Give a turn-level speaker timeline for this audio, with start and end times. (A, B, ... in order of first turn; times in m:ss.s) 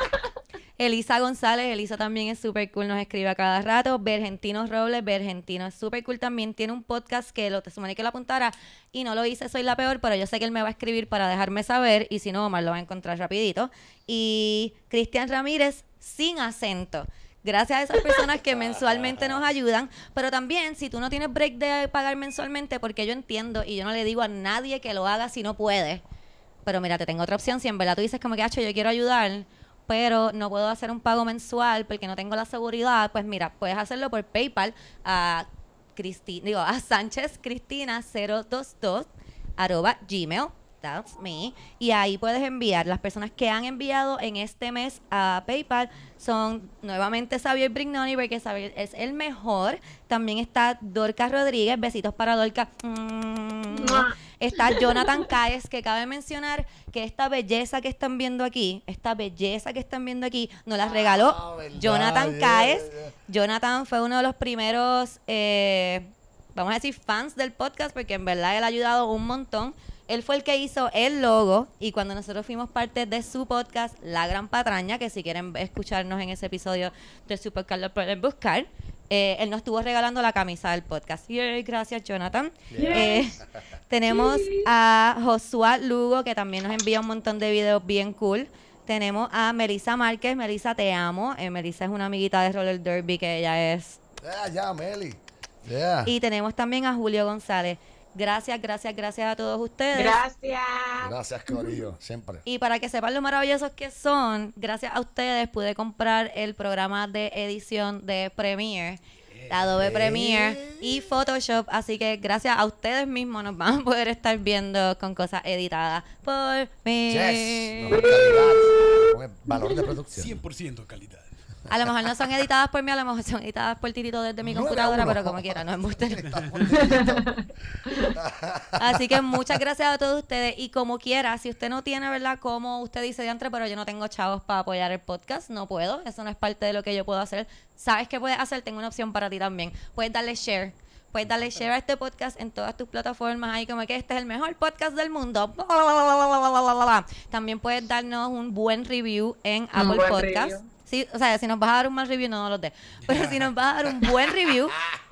0:00.8-0:26.0 A
0:18.5-0:19.4 B
0:26.6-1:34.0 A
0:53.7-0:55.0 C
1:00.8-1:03.1 B
1:22.7-1:23.5 B
1:22.8-1:23.3 C
1:24.1-1:24.6 C
1:34.2-1:36.1 B
1:36.0-1:40.2 A
1:39.9-1:41.8 C
1:41.0-1:42.4 B
1:42.4-1:58.1 A
1:49.3-1:50.2 D
1:49.8-1:50.8 B
1:57.1-2:00.4 B
1:57.9-1:59.8 C
2:00.1-2:01.3 D
2:01.7-2:06.4 A
2:04.4-2:09.4 B
2:06.2-2:06.6 D
2:06.7-2:08.2 C
2:08.8-2:34.8 A
2:29.7-2:30.7 C
2:33.0-2:33.5 D